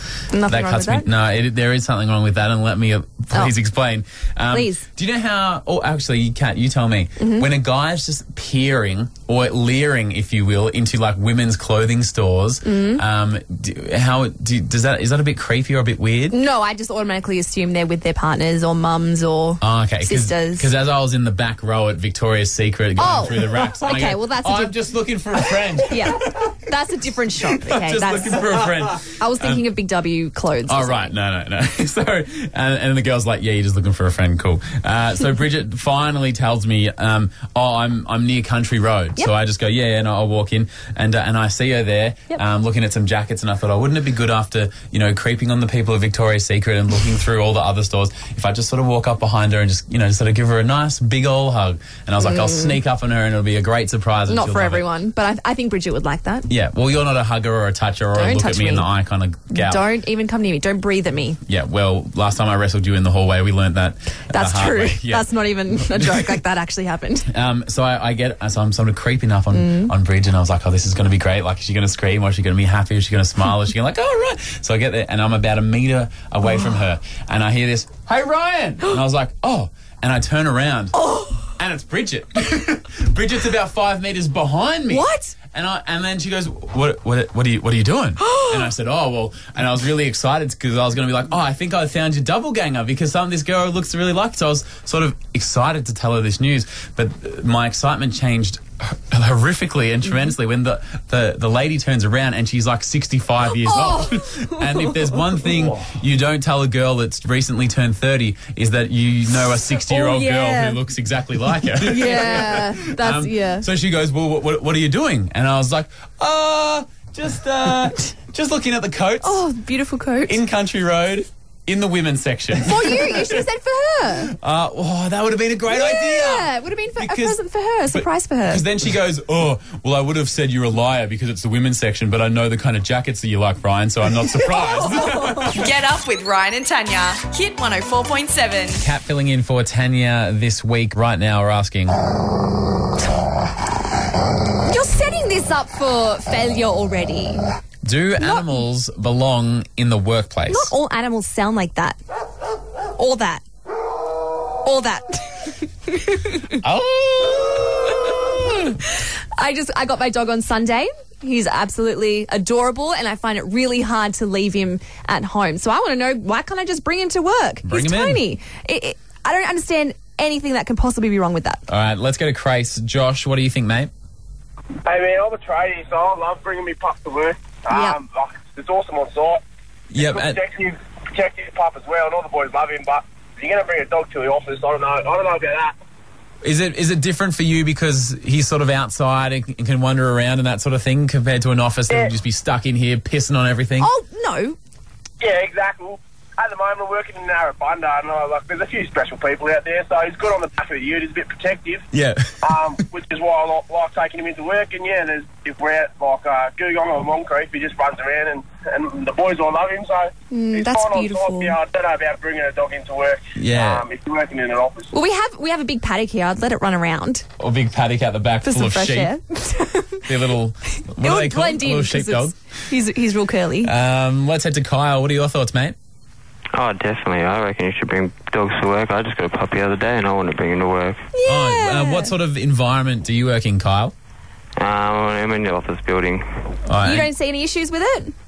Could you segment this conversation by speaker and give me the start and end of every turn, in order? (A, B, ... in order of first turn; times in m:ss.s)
0:00.3-0:01.1 A
0:00.5-0:16.4 B
0:04.5-0:04.8 A
0:07.2-0:07.4 A
0:12.6-0:13.0 A
0:16.3-0:20.7 A
0:19.6-0:26.5 B
0:23.0-0:24.7 A
0:25.9-0:28.4 A
0:27.6-0:29.6 B
0:29.0-0:31.1 A
0:30.7-0:54.9 B
0:52.2-0:52.8 A
0:54.3-0:56.5 A
0:56.5-0:59.8 B
0:58.1-0:58.9 A
0:59.5-1:01.4 A
1:01.5-1:06.3 B
1:04.3-1:07.3 A
1:07.3-1:20.9 B
1:09.5-1:09.9 A
1:20.9-1:21.5 A
1:21.5-1:59.4 B
1:24.9-1:25.3 A
1:28.2-1:28.7 A
1:43.6-1:45.1 A
1:49.9-1:50.8 A
1:51.8-1:53.6 A
1:59.2-2:00.4 A
2:00.3-2:03.4 B
2:02.6-2:04.3 A
2:04.3-2:07.4 B
2:05.7-2:08.6 A
2:07.9-2:15.7 B
2:14.4-2:15.5 A
2:15.5-2:18.8 C
2:18.8-2:22.0 B
2:24.6-2:27.4 A
2:27.8-2:30.7 B
2:30.5-2:32.0 A
2:33.0-2:33.4 A
2:34.6-2:36.6 A
2:36.6-2:37.9 B
2:39.4-2:51.6 A
2:47.6-2:48.2 B
2:51.7-2:53.9 B
2:54.8-2:59.4 D
2:57.7-2:58.0 A
2:59.9-3:00.4 B
3:00.0-3:05.7 D
3:06.4-3:13.9 B
3:13.8-3:14.6 A
3:15.2-3:21.8 D
3:21.9-3:22.4 B
3:22.4-3:34.9 D
3:30.3-3:31.6 A
3:33.4-3:33.8 B
3:34.9-3:37.2 A
3:37.4-3:39.1 B
3:38.4-3:40.0 A
3:40.0-3:42.4 B
3:41.0-3:43.7 A
3:43.6-3:45.8 B
3:46.5-3:51.1 E
3:51.1-3:52.1 A
3:51.2-3:53.9 B
3:54.6-3:56.2 E
3:56.7-3:57.1 B
3:56.8-3:58.1 A